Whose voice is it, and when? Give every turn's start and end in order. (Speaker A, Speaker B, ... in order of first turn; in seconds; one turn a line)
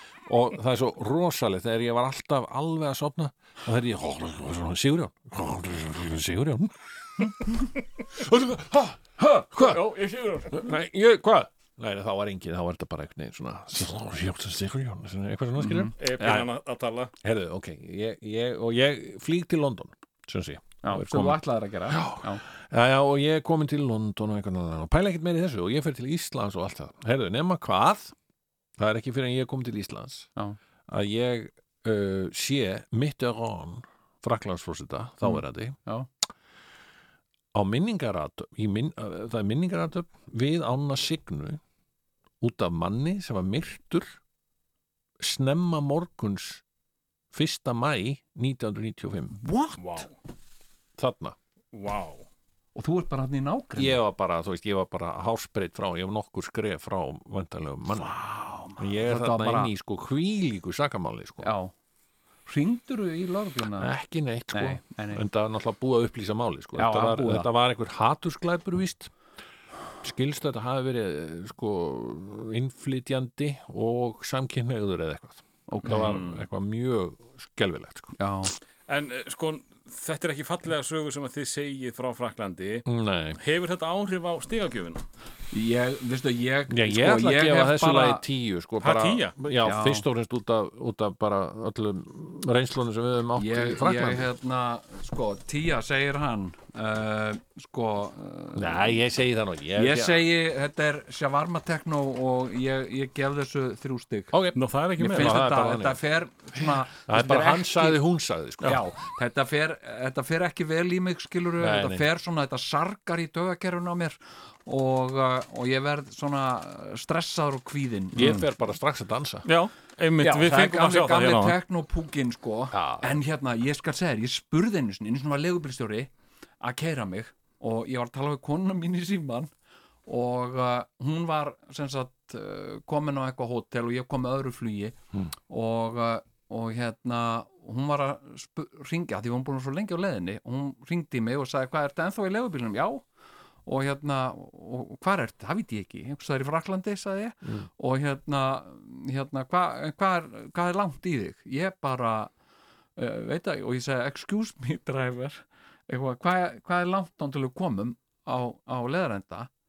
Speaker A: 0.3-9.9
Speaker B: 9.5-10.7
Speaker A: 10.5-16.5
Speaker C: 15.6-15.9
Speaker B: 16.0-17.1
Speaker A: 17.2-28.1
Speaker C: 20.8-22.4
Speaker A: 28.8-30.3
Speaker A: 30.9-35.8
Speaker C: 35.2-36.1
Speaker A: 37.5-41.6
Speaker A: 42.4-44.2
Speaker A: 45.2-46.6
Speaker A: 47.3-49.4
Speaker C: 49.3-50.1
Speaker B: 49.8-50.1
Speaker A: 51.0-51.4
Speaker B: 51.7-52.2
Speaker C: 52.8-54.0
Speaker A: 53.8-58.1
Speaker C: 58.0-59.7
Speaker A: 58.8-61.5
Speaker C: 61.4-61.7
Speaker C: 62.5-63.9
Speaker A: 63.8-69.1
Speaker C: 64.5-65.2
Speaker C: 66.8-67.5
Speaker A: 70.0-78.2
Speaker C: 75.7-76.2
Speaker B: 75.9-76.4
Speaker C: 78.2-78.5
Speaker B: 78.9-82.9
Speaker A: 82.9-83.4
Speaker B: 83.4-85.0
Speaker C: 85.5-88.2
Speaker A: 86.7-94.3
Speaker B: 88.8-89.4
Speaker C: 89.6-90.0
Speaker C: 93.4-99.0
Speaker A: 98.5-100.2
Speaker C: 99.8-104.3
Speaker A: 104.3-106.0
Speaker B: 104.5-105.4
Speaker C: 105.0-108.0
Speaker A: 106.6-108.8
Speaker C: 108.6-118.4
Speaker A: 111.6-112.0
Speaker A: 118.2-119.5
Speaker B: 118.2-118.5
Speaker B: 119.5-121.6
Speaker C: 120.2-129.5
Speaker A: 122.7-123.2
Speaker C: 130.1-143.0
Speaker C: 143.7-152.3
Speaker C: 153.0-159.5